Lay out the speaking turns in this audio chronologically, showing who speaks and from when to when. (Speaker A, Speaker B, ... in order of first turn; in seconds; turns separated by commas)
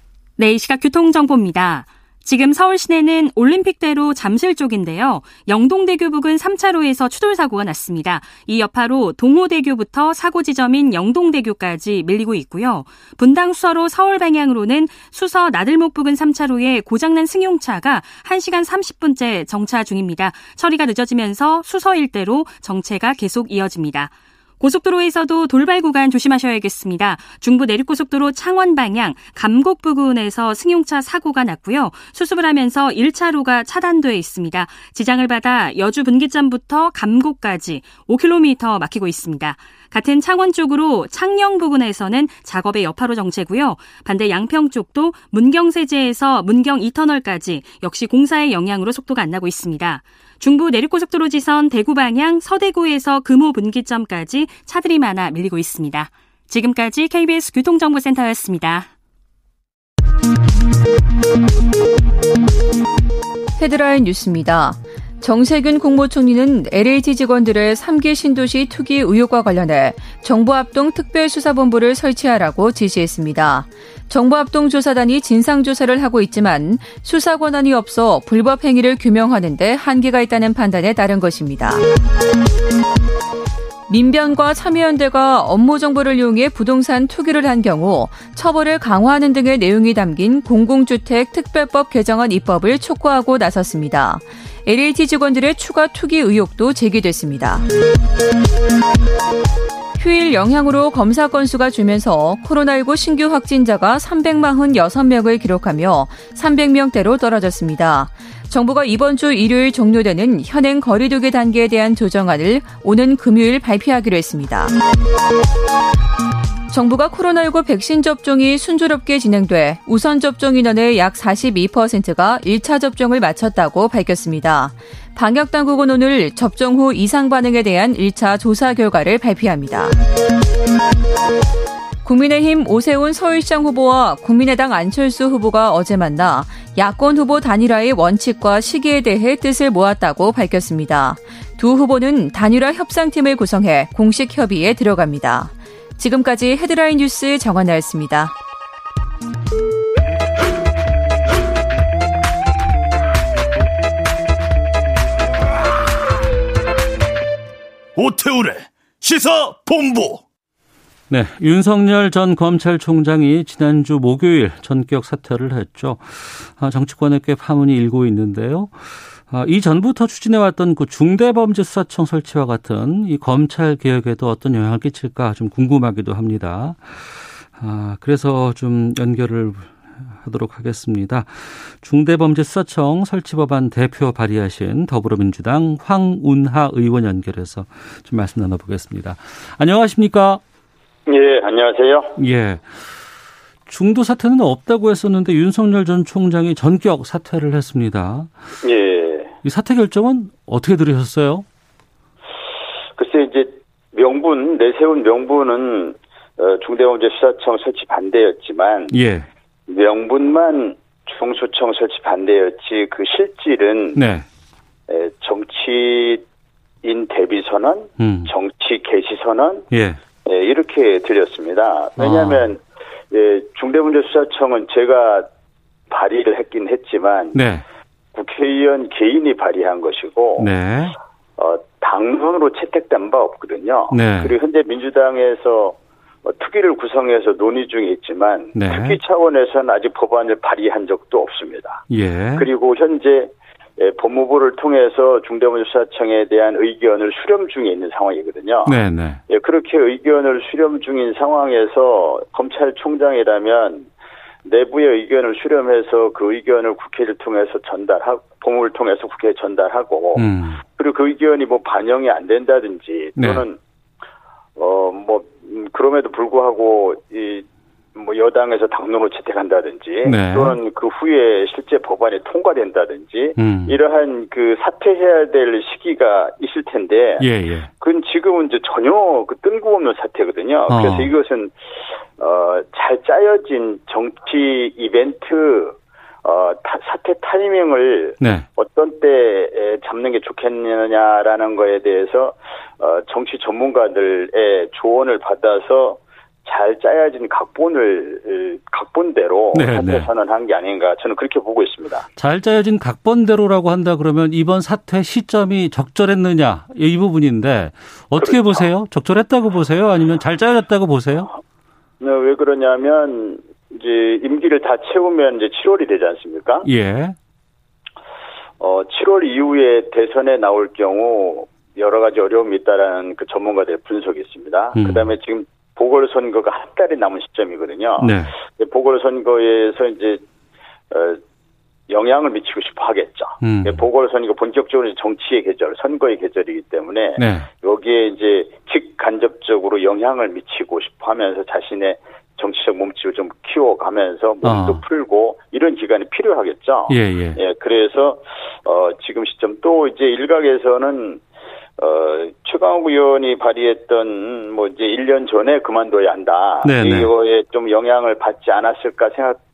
Speaker A: 0.4-58.9, Speaker B: 63.6-81.8, Speaker B: 83.9-97.7, Speaker B: 100.0-114.7, Speaker B: 116.7-129.9, Speaker B: 132.0-148.3, Speaker C: 158.0-160.2, Speaker D: 161.1-190.4, Speaker E: 191.1-192.2, Speaker D: 192.2-193.0, Speaker D: 193.7-198.3, Speaker E: 198.6-199.3, Speaker D: 199.4-201.5, Speaker E: 203.0-208.9, Speaker D: 208.9-209.3, Speaker E: 209.7-214.0, Speaker D: 213.9-214.3, Speaker E: 214.9-216.2, Speaker E: 216.8-219.7, Speaker D: 218.0-218.3, Speaker D: 219.7-220.0, Speaker E: 220.2-225.3, Speaker D: 222.0-222.5, Speaker E: 225.9-227.4, Speaker D: 227.3-227.6, Speaker E: 228.1-230.5, Speaker D: 230.4-230.9, Speaker E: 231.4-241.8, Speaker D: 233.9-234.4, Speaker D: 238.6-239.0, Speaker D: 241.9-242.5, Speaker E: 242.4-248.8, Speaker D: 248.7-249.2, Speaker E: 249.3-253.9, Speaker E: 254.4-263.6, Speaker D: 260.1-260.6, Speaker D: 263.2-263.5, Speaker E: 264.6-277.3, Speaker D: 270.0-270.6, Speaker D: 273.4-273.8, Speaker D: 277.2-277.7, Speaker E: 277.8-302.1, Speaker D: 280.7-281.1, Speaker D: 288.2-288.5, Speaker D: 299.5-300.1, Speaker D: 302.2-311.3, Speaker E: 308.2-308.7, Speaker E: 312.0-316.7, Speaker D: 316.6-317.2, Speaker E: 318.6-330.2, Speaker D: 324.8-325.1, Speaker D: 328.0-328.4, Speaker E: 330.9-331.2, Speaker E: 331.9-351.2, Speaker D: 333.4-333.9, Speaker D: 337.2-337.5, Speaker D: 344.4-344.8, Speaker D: 346.9-347.4, Speaker E: 351.8-359.4, Speaker D: 356.6-357.1